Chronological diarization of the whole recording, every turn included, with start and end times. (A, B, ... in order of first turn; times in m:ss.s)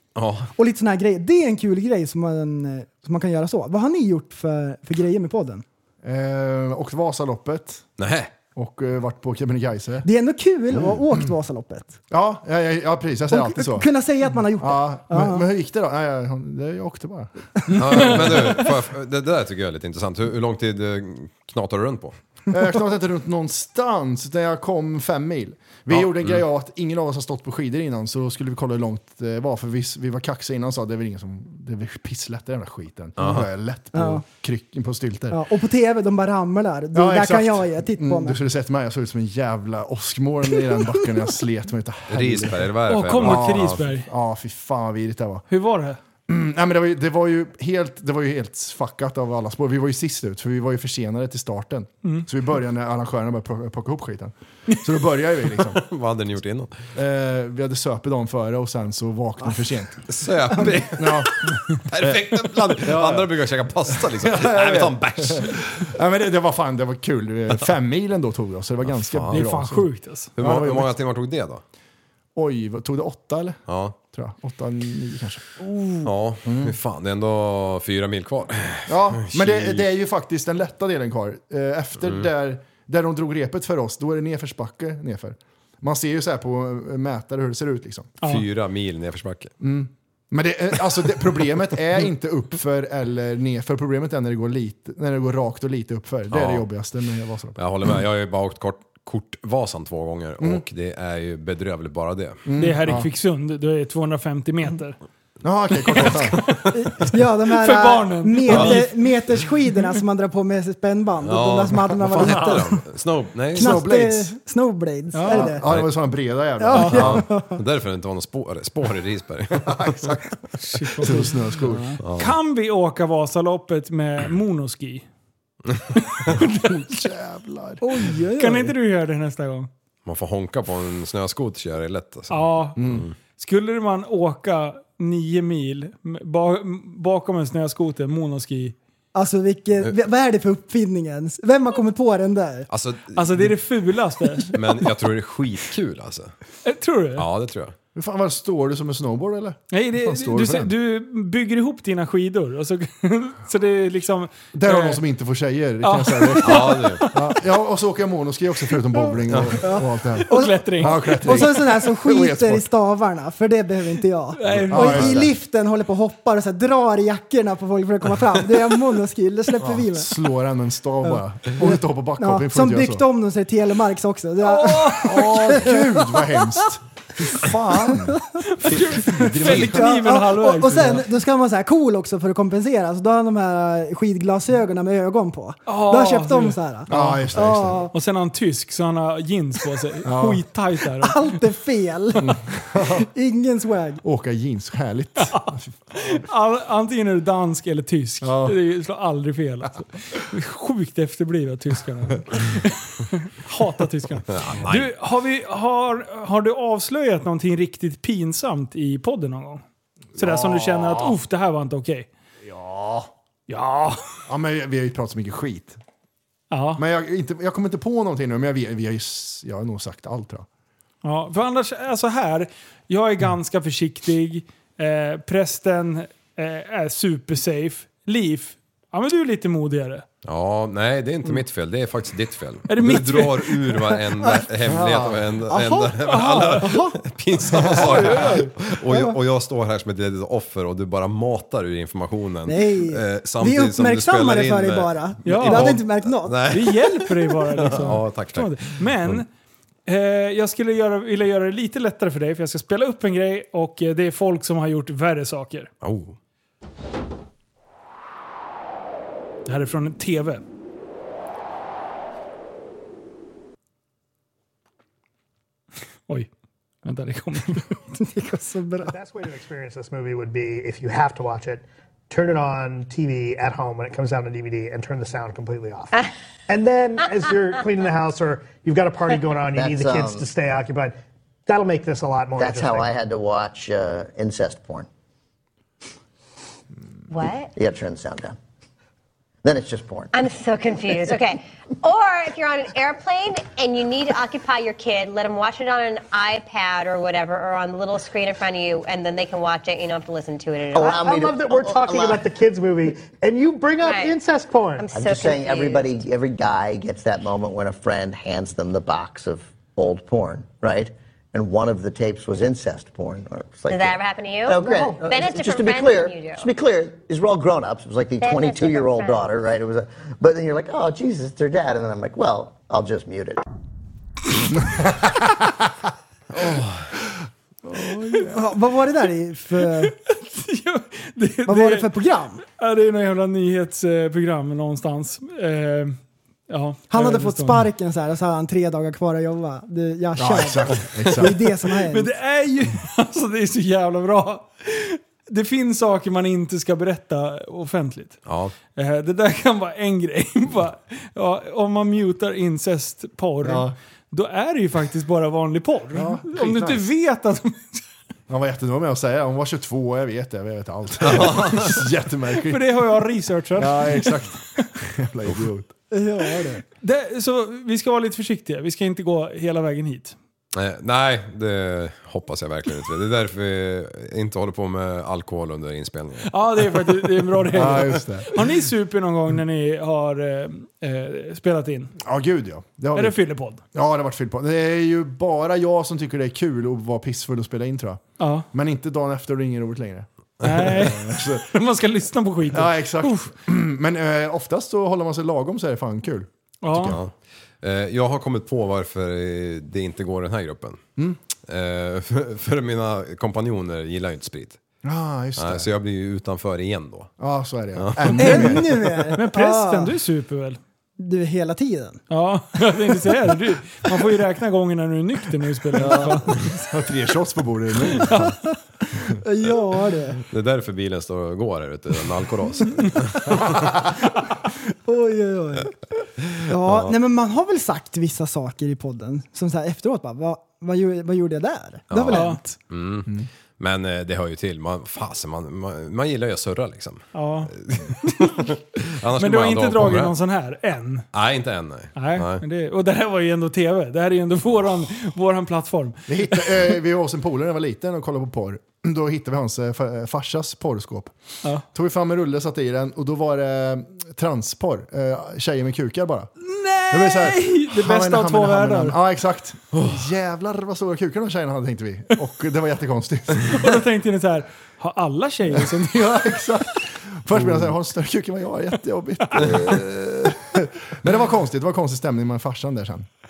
0:00.2-0:00.5 A
0:00.6-0:05.6 B
0:06.0-0:07.8 C
0:08.0-0:08.3 A
0:08.6-0:10.1 C
0:10.0-0:12.0 B
0:10.7-0:11.3 C
0:12.1-0:13.9 C
0:13.3-0:15.4 B
0:14.6-0:18.5 C
0:17.8-0:22.1 A
0:22.5-0:35.4 C
0:25.9-0:26.4 A
0:33.2-0:33.5 A
0:33.9-0:34.2 B
0:35.3-0:38.4 B
0:36.9-0:42.7 C
0:40.7-0:41.0 B
0:42.1-0:43.8 A
0:42.9-0:44.1 D
0:43.2-0:45.4 C
0:45.5-0:46.0 D
0:46.3-0:55.8 C
0:55.8-0:56.8 A
0:56.9-1:00.0 C
1:00.1-1:01.3 A
1:00.9-1:01.4 C
1:01.8-1:05.8 A
1:02.0-1:10.9 C
1:08.8-1:09.4 A
1:09.3-1:10.3 D
1:10.4-1:11.6 A
1:12.3-1:15.5 C
1:13.7-1:13.9 A
1:16.0-1:19.8 A
1:16.4-1:16.7 C
1:18.9-1:28.1 C
1:28.2-1:29.5 A
1:29.6-1:37.6 C
1:36.3-1:36.6 A
1:37.6-1:42.4 A
1:42.4-1:43.1 C
1:42.6-1:45.0 D
1:45.4-1:46.4 C
1:46.0-1:46.7 A
1:46.8-1:52.8 B
1:47.5-1:49.1 D
1:48.5-1:48.8 A
1:51.2-1:53.8 A
1:52.2-1:52.5 C
1:53.5-1:54.3 C
1:53.5-1:55.6 B
1:55.1-1:55.5 D
1:55.2-1:57.2 C
1:55.6-1:55.9 A
1:56.6-1:57.6 B
1:56.8-2:00.2 A
1:59.6-2:00.3 C
2:00.6-2:05.1 D
2:01.0-2:01.9 C
2:02.0-2:02.4 A
2:06.1-2:07.0 D
2:06.4-2:07.8 C
2:07.8-2:08.7 B
2:08.4-2:09.7 D
2:10.0-2:13.1 A
2:12.3-2:12.8 D
2:12.8-2:13.1 C
2:13.4-2:18.8 D
2:19.1-2:22.7 B
2:22.7-2:23.5 A
2:23.1-2:24.5 D
2:24.5-2:26.3 A
2:26.6-2:27.2 D
2:27.2-2:27.7 A
2:27.9-2:30.7 C
2:29.7-2:35.0 D
2:34.5-2:42.7 C
2:35.8-2:37.3 D
2:36.4-2:37.0 A
2:39.3-2:39.6 A
2:39.6-2:50.1 B
2:40.2-2:41.1 D
2:44.4-2:45.2 D
2:44.7-2:45.3 C
2:49.6-2:53.0 C
2:51.0-2:56.6 B
2:54.4-2:55.3 D
2:55.0-2:58.2 C
2:57.8-2:58.1 B
2:58.5-3:01.0 D
2:58.8-2:59.9 C
2:59.5-3:07.9 B
3:05.7-3:06.6 D
3:06.9-3:07.9 C
3:07.9-3:11.3 D
3:10.0-3:10.4 C
3:11.0-3:12.3 B
3:12.2-3:13.0 C
3:12.9-3:14.0 B
3:14.0-3:16.2 C
3:15.2-3:29.6 D
3:18.2-3:18.6 C
3:24.3-3:24.9 A
3:30.1-3:31.2 C
3:30.2-3:32.1 D
3:32.4-3:33.1 C
3:33.5-3:34.0 D
3:34.3-3:35.8 C
3:36.5-3:36.8 D
3:36.8-3:40.4 C
3:41.0-3:50.0 D
3:50.2-4:07.0 A
3:52.7-3:53.6 D
3:54.2-3:54.4 B
3:54.6-3:55.3 C
3:55.5-3:57.0 B
3:56.0-3:56.7 D
3:57.5-3:59.2 B
3:57.8-3:58.4 D
4:02.5-4:06.8 B
4:05.2-4:05.8 D
4:06.5-4:09.3 D
4:07.6-4:09.2 A
4:09.9-4:15.7 D
4:15.8-4:16.2 A
4:19.5-4:20.4 D
4:26.8-4:27.8 D
4:28.0-4:29.0 B
4:28.8-4:42.9 E
4:39.5-4:40.2 F
4:42.4-4:44.9 F
4:47.1-4:47.5 G
4:47.6-4:48.4 F
4:49.4-4:50.1 F
4:50.1-5:01.0 G
5:00.7-5:02.2 F
5:00.8-5:04.9 E
5:03.8-5:04.1 G
5:04.8-5:06.0 G
5:04.9-5:23.4 F
5:13.7-5:16.5 G
5:14.7-5:15.0 E
5:18.2-5:19.3 G
5:24.6-5:25.4 C
5:26.3-5:26.9 A
5:27.7-5:28.3 C
5:28.2-5:29.9 B
5:29.8-5:31.9 D
5:31.4-5:32.4 B
5:32.5-5:37.6 D
5:36.9-5:42.1 B
5:40.2-5:41.5 C
5:41.9-5:48.2 D
5:48.2-5:48.5 A
5:48.7-5:57.9 D
5:53.4-5:53.7 C
5:55.9-5:56.9 C
5:58.3-6:02.6 C
6:01.0-6:01.8 A
6:02.5-6:04.2 D
6:03.6-6:05.7 C
6:05.9-6:06.6 B
6:06.8-6:10.2 D
6:10.5-6:16.9 A
6:16.3-6:21.9 D
6:17.5-6:18.3 C
6:22.0-6:23.2 C
6:22.9-6:23.6 D
6:23.7-6:28.0 C
6:28.2-6:28.5 D
6:28.5-6:31.5 C
6:30.4-6:33.3 D
6:32.5-6:36.3 C
6:36.6-6:37.0 D
6:36.7-6:40.8 A
6:41.5-6:44.6 A
6:44.8-6:45.7 C
6:45.4-6:47.1 A
6:47.2-6:49.1 C
6:47.8-6:48.4 A
6:48.2-6:49.9 B
6:49.1-6:50.6 D
6:51.0-6:52.0 B
6:52.1-6:56.6 D
6:55.8-6:56.1 B
6:55.8-6:58.3 C
6:57.9-6:58.3 D
6:58.9-7:00.2 B
7:00.3-7:03.7 A
7:04.8-7:05.8 B
7:06.4-7:12.5 B
7:06.6-7:06.9 A
7:11.9-7:20.1 A
7:12.1-7:12.4 D
7:17.1-7:17.5 D
7:19.2-7:21.0 D
7:21.1-7:22.4 A
7:22.0-7:26.7 D
7:26.1-7:31.1 C
7:31.7-7:36.3 C
7:36.4-7:39.0 D
7:36.9-7:43.7 C
7:43.5-7:46.2 D
7:45.5-7:53.1 C
7:47.4-7:47.7 A